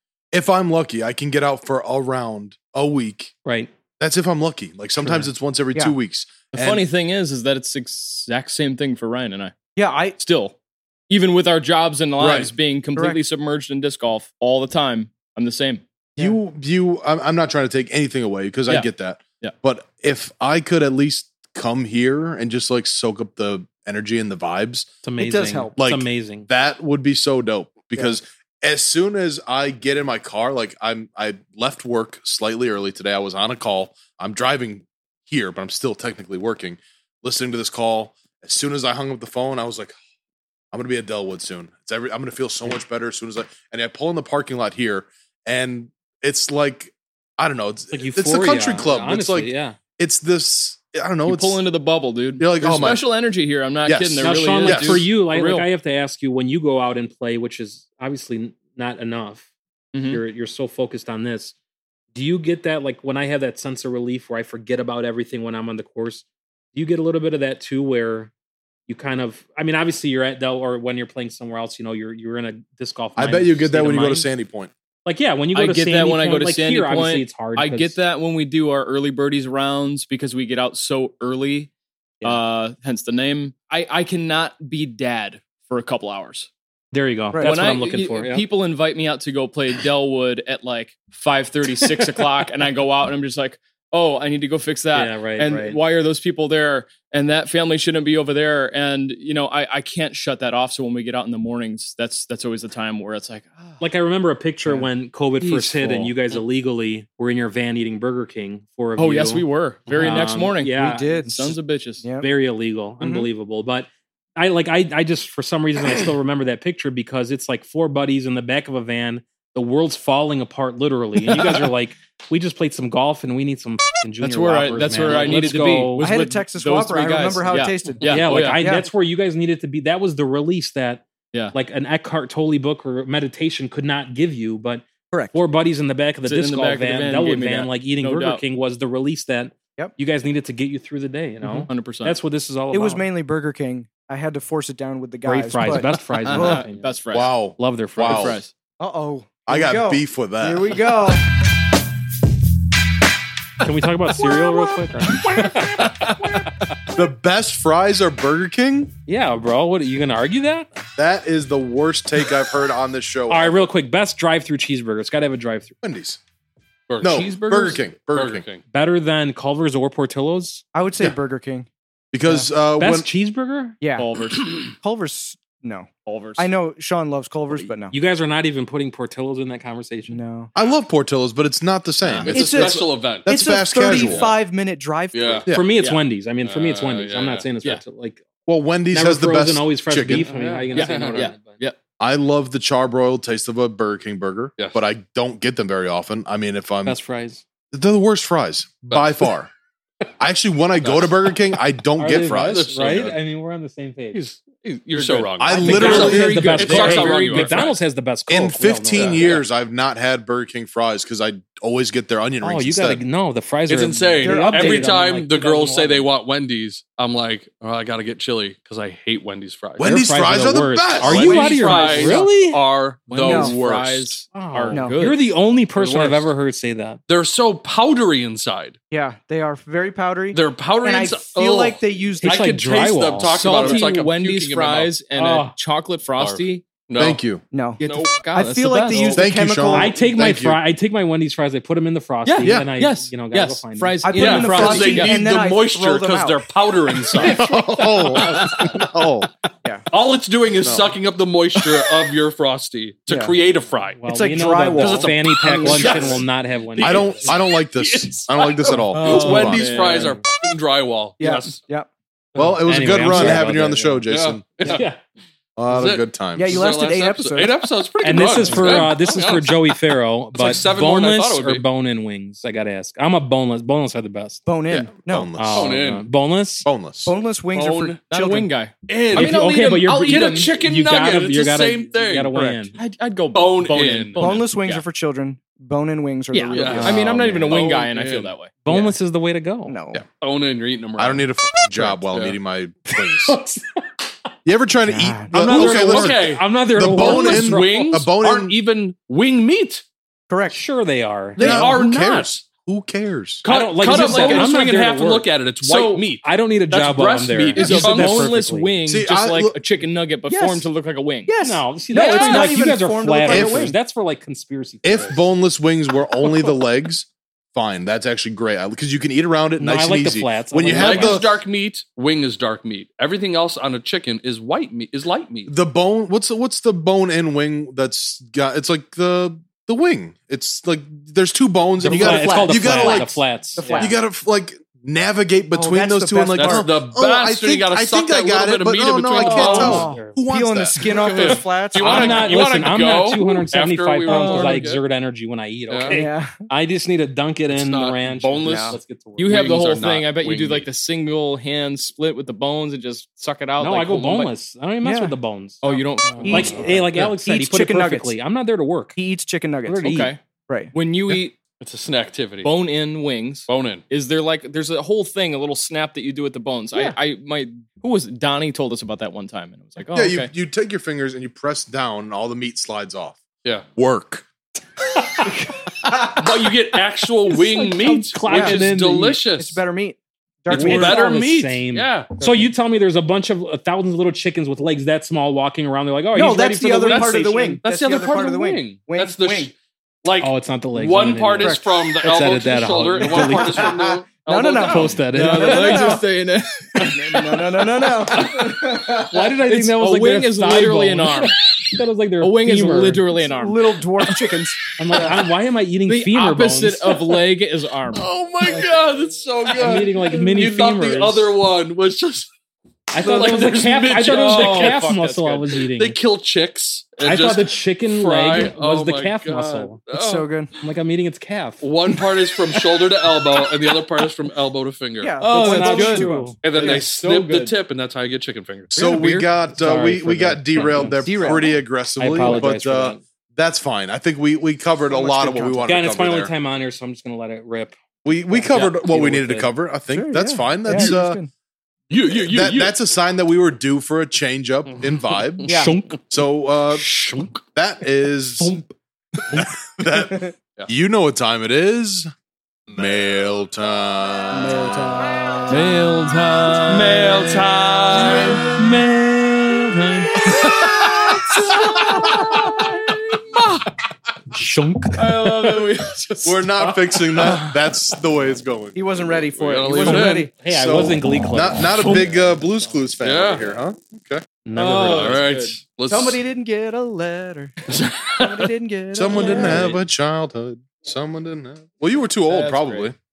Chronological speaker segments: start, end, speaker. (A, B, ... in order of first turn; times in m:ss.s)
0:00.3-0:03.3 A
0:03.4-0:03.7 B
0:04.0-0:06.8 A
0:06.5-0:09.5 C
0:09.8-0:10.2 D
0:10.2-0:10.5 C
0:11.1-0:15.8 C
0:12.2-0:12.5 A
0:16.2-0:24.9 A
0:25.0-0:26.5 B
0:25.2-0:25.7 D
0:25.8-0:40.0 A
0:40.7-0:51.6 A
0:47.9-0:49.8 B
0:51.2-0:55.7 C
0:52.4-0:53.0 A
0:53.8-0:55.0 A
0:54.2-0:59.4 B
0:59.9-1:00.2 C
1:00.0-1:01.5 B
1:02.1-1:08.3 B
1:08.9-1:14.3 B
1:13.2-1:14.7 A
1:15.0-1:18.0 B
1:15.5-1:21.7 C
1:22.2-1:26.5 C
1:26.9-1:28.4 B
1:27.3-1:27.6 D
1:27.4-1:43.8 C
1:31.8-1:32.2 B
1:34.9-1:35.8 B
1:43.8-1:51.2 B
1:45.4-1:46.1 C
1:49.0-1:52.0 C
1:50.7-1:52.3 D
1:52.2-2:06.1 B
1:53.0-1:53.3 D
2:01.2-2:01.7 C
2:04.2-2:08.6 C
2:06.0-2:08.9 D
2:08.0-2:23.1 B
2:15.1-2:15.4 D
2:16.2-2:18.4 C
2:21.4-2:22.2 C
2:22.7-2:26.7 D
2:25.2-2:27.0 B
2:25.6-2:27.3 C
2:27.1-2:28.4 A
2:27.5-2:28.4 B
2:28.0-2:28.5 C
2:28.8-2:31.2 D
2:29.5-2:30.8 A
2:33.6-2:36.5 B
2:34.3-2:35.2 D
2:36.9-2:38.9 A
2:39.1-2:40.7 B
2:41.0-2:43.6 A
2:43.3-2:45.8 B
2:45.8-2:46.2 A
2:46.9-2:47.3 E
2:47.0-2:48.4 A
2:47.0-2:47.8 C
2:48.1-2:48.6 E
2:48.7-2:50.6 B
2:50.7-2:51.7 D
2:52.1-2:53.1 A
2:52.2-2:52.5 D
2:52.8-2:53.8 B
2:53.8-2:54.1 D
2:54.0-2:54.7 C
2:54.8-2:57.9 D
2:56.0-2:56.5 C
2:57.9-3:00.2 B
3:00.1-3:00.5 D
3:00.5-3:04.3 A
3:02.0-3:02.3 C
3:02.2-3:03.3 E
3:02.3-3:05.5 D
3:03.8-3:04.3 E
3:05.1-3:05.5 E
3:05.5-3:08.2 B
3:06.4-3:07.5 E
3:08.5-3:10.3 A
3:08.9-3:11.6 B
3:10.1-3:11.2 E
3:10.7-3:11.8 C
3:12.0-3:17.0 A
3:16.8-3:17.4 B
3:17.7-3:19.5 A
3:18.9-3:19.3 E
3:20.2-3:22.6 A
3:20.8-3:21.4 E
3:22.0-3:24.2 B
3:22.3-3:23.2 E
3:24.1-3:27.8 E
3:25.0-3:27.7 C
3:25.4-3:26.9 A
3:25.6-3:29.4 B
3:28.3-3:33.0 A
3:29.0-3:29.4 E
3:32.4-3:36.1 B
3:33.7-3:39.9 E
3:34.2-3:34.9 D
3:39.8-3:41.4 A
3:39.8-3:42.6 B
3:41.0-3:44.2 E
3:41.1-3:42.3 D
3:43.1-3:45.3 C
3:43.2-3:43.5 D
3:44.3-3:47.0 B
3:45.8-3:46.3 E
3:47.1-3:48.8 E
3:48.9-3:52.4 D
3:50.3-3:55.0 E
3:52.2-3:53.8 B
3:53.3-3:56.6 C
3:55.2-3:55.5 B
3:56.1-3:57.2 E
3:57.0-3:57.4 A
3:57.5-4:00.0 D
3:57.8-3:59.2 C
3:57.8-3:58.1 E
3:58.9-4:00.6 A
3:59.7-4:04.6 B
4:02.2-4:05.2 C
4:02.4-4:02.7 A
4:04.0-4:06.4 D
4:04.2-4:08.7 E
4:07.2-4:09.3 A
4:09.9-4:14.0 E
4:10.6-4:10.9 A
4:13.1-4:13.4 D
4:14.0-4:17.3 B
4:14.1-4:16.2 D
4:14.7-4:21.6 E
4:16.8-4:20.0 A
4:18.9-4:20.1 B
4:19.0-4:20.1 C
4:21.2-4:21.9 D
4:22.4-4:24.0 B
4:22.4-4:24.7 A
4:23.1-4:23.4 D
4:24.1-4:24.8 E
4:24.7-4:25.0 B
4:25.6-4:26.6 A
4:25.7-4:29.7 E
4:26.3-4:27.6 D
4:28.0-4:34.4 B
4:28.4-4:28.7 D
4:30.3-4:31.6 E
4:34.4-4:35.3 D
4:34.7-4:35.8 A
4:35.3-4:36.7 B
4:35.5-4:36.0 E
4:36.6-4:37.1 A
4:37.0-4:38.5 D
4:37.5-4:38.0 E
4:38.1-4:40.5 C
4:38.9-4:42.3 E
4:39.1-4:42.8 B
4:42.3-4:42.6 D
4:42.8-4:44.8 C
4:43.3-4:44.3 E
4:44.2-4:47.5 D
4:46.4-4:47.6 B
4:46.4-4:48.5 C
4:46.5-4:46.9 E
4:47.5-4:48.3 E
4:48.6-4:49.8 B
4:49.6-4:50.0 D
4:50.2-4:51.3 E
4:51.0-4:53.4 A
4:51.8-4:52.4 E
4:53.2-4:53.8 B
4:54.4-4:58.6 A
4:54.9-4:55.4 D
4:55.3-4:59.8 E
4:55.4-4:58.0 B
5:00.3-5:00.6 D
5:00.5-5:02.3 B
5:01.4-5:02.3 E
5:01.4-5:03.4 A
5:03.4-5:08.3 E
5:03.4-5:05.3 B
5:03.8-5:04.5 C
5:05.6-5:06.0 C
5:06.1-5:08.8 B
5:07.5-5:11.3 C
5:08.9-5:09.6 A
5:10.3-5:10.7 D
5:11.3-5:13.8 D
5:11.4-5:15.2 B
5:12.0-5:12.4 C
5:13.3-5:13.7 A
5:14.8-5:21.4 A
5:19.6-5:21.3 B
5:20.6-5:25.5 E
5:25.4-5:33.2 A
5:31.8-5:33.9 D
5:31.9-5:33.9 B
5:33.8-5:41.3 A
5:35.5-5:36.8 D
5:36.4-5:39.8 E
5:39.2-5:42.5 D
5:39.3-5:40.2 B
5:40.8-5:44.8 E
5:41.8-5:49.5 B
5:44.1-5:44.4 C
5:45.7-5:46.0 E
5:45.9-5:46.4 D
5:47.5-5:50.7 E
5:48.4-5:48.8 D
5:49.2-5:54.3 C
5:53.6-5:59.0 B
5:54.8-5:55.2 D
5:55.6-5:56.8 C
5:56.2-5:58.2 D
5:59.0-6:00.7 D
5:59.6-6:00.1 B
5:59.8-6:00.2 C
6:00.7-6:01.4 C
6:01.6-6:02.5 E
6:02.4-6:10.3 C
6:03.5-6:03.8 E
6:09.9-6:13.2 A
6:13.8-6:14.2 A
6:15.9-6:16.2 D
6:16.1-6:19.6 E
6:17.7-6:19.2 B
6:18.3-6:18.6 D
6:19.3-6:21.2 D
6:20.5-6:22.1 E
6:20.5-6:27.5 B
6:22.2-6:22.5 D
6:26.1-6:29.5 D
6:26.8-6:35.0 E
6:30.2-6:33.8 B
6:31.4-6:31.7 D
6:33.0-6:36.0 D
6:34.6-6:36.0 B
6:35.0-6:37.3 C
6:36.9-6:39.3 D
6:39.0-6:43.1 B
6:39.4-6:41.4 C
6:42.2-6:43.8 C
6:43.2-6:45.2 D
6:44.8-6:47.0 B
6:45.9-6:48.0 C
6:47.9-6:52.3 E
6:48.4-6:48.7 D
6:49.5-6:51.3 B
6:52.9-6:56.0 B
6:53.0-6:54.9 E
6:53.0-6:53.5 D
6:54.0-6:55.6 C
6:55.7-7:00.3 E
6:57.0-6:59.9 B
6:59.9-7:00.6 D
7:00.6-7:01.6 B
7:01.6-7:05.2 E
7:05.0-7:06.8 D
7:05.2-7:07.5 C
7:05.2-7:06.4 B
7:06.4-7:09.0 E
7:08.7-7:11.4 B
7:08.7-7:16.3 A
7:10.7-7:11.6 D
7:12.0-7:13.0 B
7:12.2-7:12.4 D
7:14.9-7:15.6 D
7:15.6-7:17.8 B
7:18.0-7:21.2 A
7:18.3-7:19.5 B
7:19.9-7:21.3 D
7:21.9-7:22.8 E
7:22.1-7:25.5 A
7:25.5-7:26.0 B
7:25.5-7:25.7 D
7:26.1-7:26.9 A
7:26.8-7:27.3 B
7:27.5-7:28.6 A
7:29.3-7:32.1 A
7:30.0-7:30.3 D
7:32.7-7:35.0 A
7:34.3-7:35.5 D
7:35.5-7:37.2 C
7:36.6-7:43.5 E
7:44.3-7:45.4 B
7:45.0-7:46.0 C
7:45.0-7:45.9 E
7:46.2-7:49.1 A
7:47.2-7:47.5 B
7:48.7-7:50.3 D
7:49.3-7:50.3 E
7:49.8-7:52.6 B
7:50.5-7:54.2 A
7:53.0-7:53.5 E
7:54.4-7:55.3 B
7:54.5-7:55.6 C
7:54.5-7:56.2 E
7:55.9-7:57.6 D
7:57.7-7:58.5 E
7:58.1-7:59.7 D
7:58.9-8:03.0 A
7:59.2-7:59.7 B
8:02.3-8:02.9 C